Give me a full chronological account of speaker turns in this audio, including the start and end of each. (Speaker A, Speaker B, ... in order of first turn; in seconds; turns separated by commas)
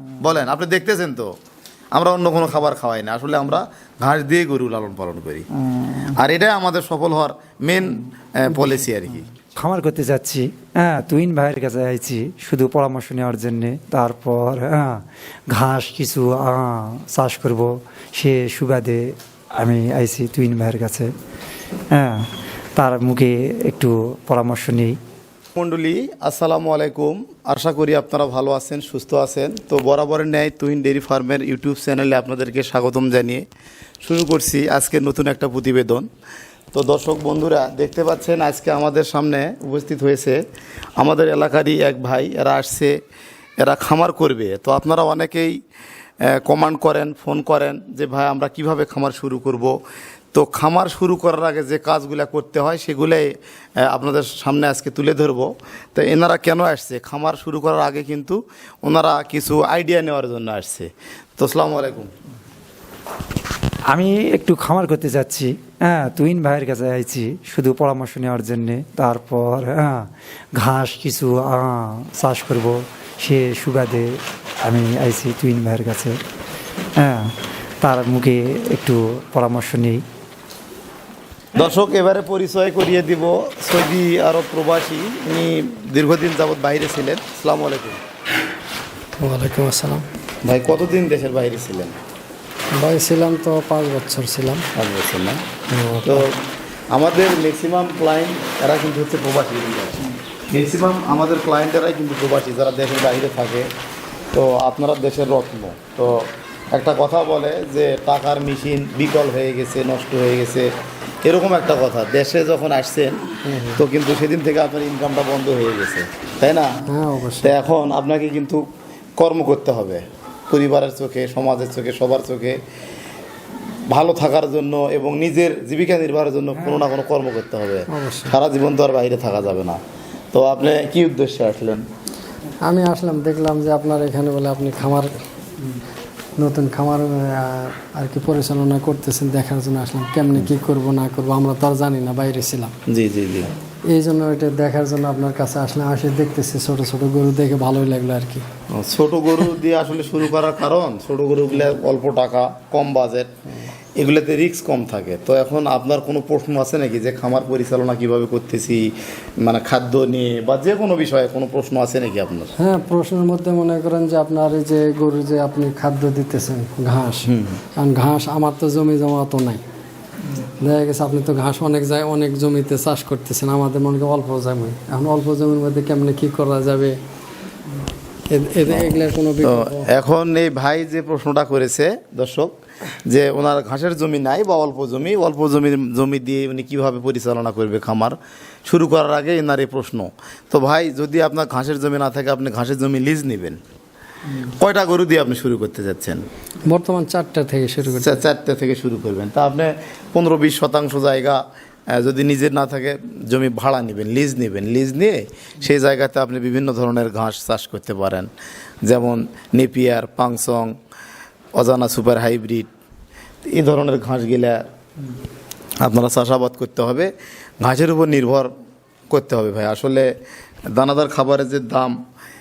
Speaker A: 0.2-1.3, Speaker A: 1.9-5.5, Speaker B: 5.7-6.1, Speaker A: 6.0-9.3, Speaker B: 9.6-21.1, Speaker B: 21.9-25.0, Speaker A: 25.6-33.4, Speaker A: 34.0-36.1, Speaker A: 36.7-40.4, Speaker A: 41.0-43.0, Speaker A: 43.6-45.6, Speaker A: 46.2-49.8, Speaker A: 50.3-62.1, Speaker B: 63.9-76.2, Speaker B: 77.0-80.0, Speaker A: 81.5-88.0, Speaker C: 89.2-90.1, Speaker A: 90.4-92.0, Speaker C: 92.7-94.7, Speaker A: 94.8-95.4, Speaker C: 95.7-96.2, Speaker A: 96.0-96.4, Speaker A: 96.9-103.7, Speaker A: 104.3-110.7, Speaker A: 111.2-116.7, Speaker C: 113.5-113.8, Speaker C: 116.9-117.5, Speaker A: 117.4-118.6, Speaker A: 119.2-122.6, Speaker A: 123.9-129.8, Speaker C: 127.9-128.4, Speaker A: 130.3-131.8, Speaker C: 132.6-135.2, Speaker C: 136.4-142.7, Speaker A: 142.9-143.5, Speaker C: 143.9-148.5, Speaker A: 148.7-153.3, Speaker A: 154.0-158.9, Speaker A: 159.4-162.5, Speaker C: 162.6-169.6, Speaker A: 167.3-167.6, Speaker C: 170.6-177.0, Speaker C: 178.3-179.9, Speaker A: 178.7-182.5, Speaker A: 183.1-193.6, Speaker A: 194.4-196.2, Speaker C: 196.7-198.3, Speaker A: 198.0-208.3, Speaker A: 208.9-210.7, Speaker A: 211.6-212.7, Speaker A: 213.5-214.6, Speaker A: 215.8-218.5, Speaker A: 219.1-220.1, Speaker A: 220.7-221.9